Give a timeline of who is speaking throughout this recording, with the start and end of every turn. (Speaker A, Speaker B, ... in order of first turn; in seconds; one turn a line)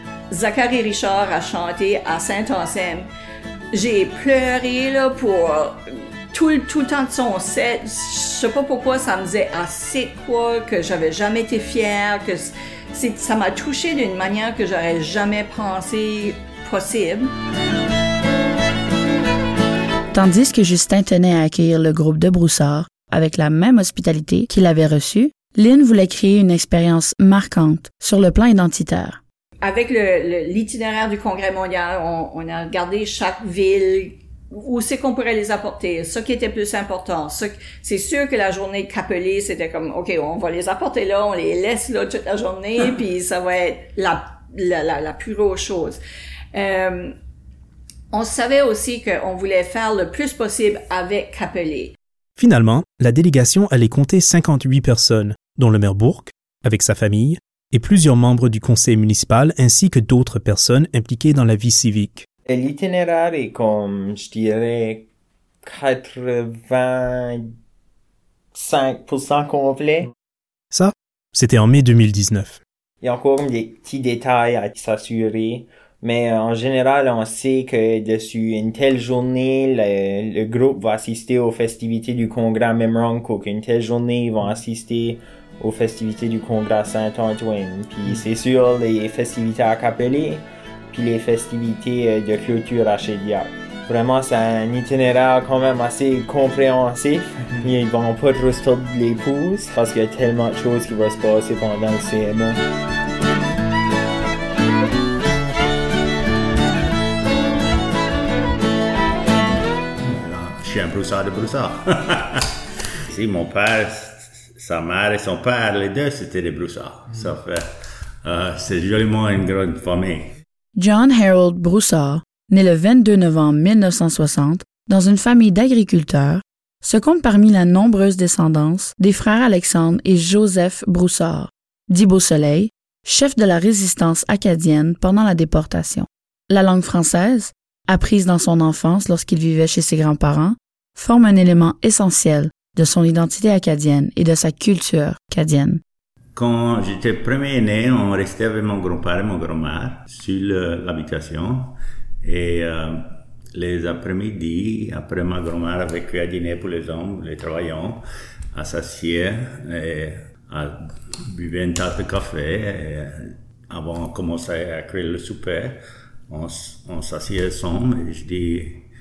Speaker A: 0.3-3.1
Speaker A: 3.7-17.3
Speaker B: 20.1-29.2
Speaker A: 29.6-46.0
Speaker A: 46.5-47.1
Speaker A: 48.1-52.0
Speaker C: 52.4-62.3
Speaker D: 62.5-65.0
Speaker D: 65.7-67.4
Speaker D: 68.5-70.1
Speaker C: 70.7-72.6
Speaker D: 73.0-102.6
Speaker E: 110.0-112.4
Speaker E: 113.1-117.7
Speaker E: 118.2-120.3
Speaker B: 120.8-145.8
Speaker E: 146.4-158.0
Speaker E: 158.5-168.9